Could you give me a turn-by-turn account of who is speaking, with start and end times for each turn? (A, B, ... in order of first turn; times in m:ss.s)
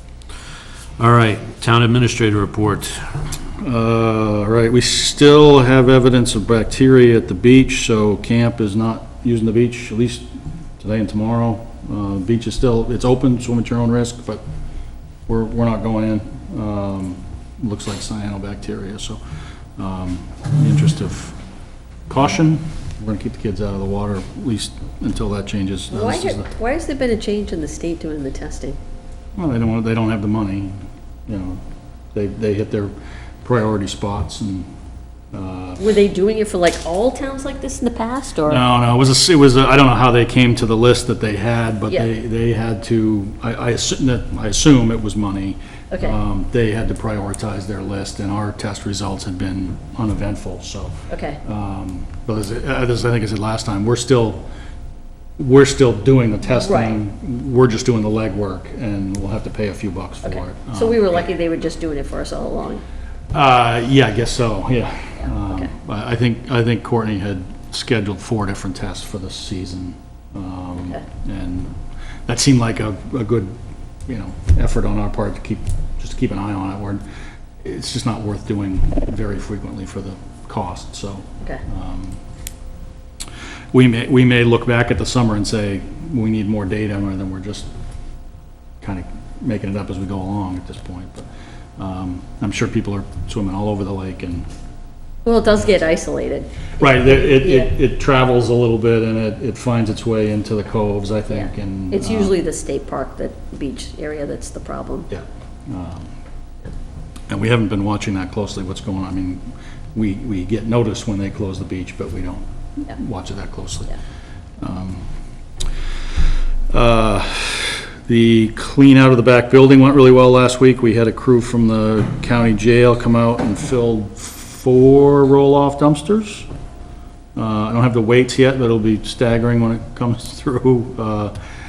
0:00.3-0:03.2 A
0:03.6-0:10.3 B
0:10.8-0:14.4 B
0:15.3-0:19.2 B
0:19.8-0:21.4 B
0:22.1-0:26.5 B
0:25.9-0:28.8 C
0:29.4-0:31.6 B
0:32.1-0:34.7 B
0:35.3-0:35.8 B
0:35.8-0:38.6 C
0:38.5-0:54.4 B
0:45.9-0:46.2 C
0:51.1-0:51.4 C
0:55.4-1:01.3 B
0:56.4-0:57.0 C
1:00.2-1:02.8 C
1:03.3-1:13.6 B
1:05.2-1:05.7 C
1:10.8-1:11.0 C
1:14.1-1:17.0 B
1:17.6-1:22.2 B
1:23.7-1:27.7 B
1:28.8-1:34.5 B
1:35.2-1:37.7 C
1:36.8-1:42.3 B
1:41.3-1:45.1 C
1:45.1-1:46.1 B
1:47.3-1:54.0 B
1:54.6-1:55.1 B
1:56.7-2:06.5 B
2:07.4-2:11.4 B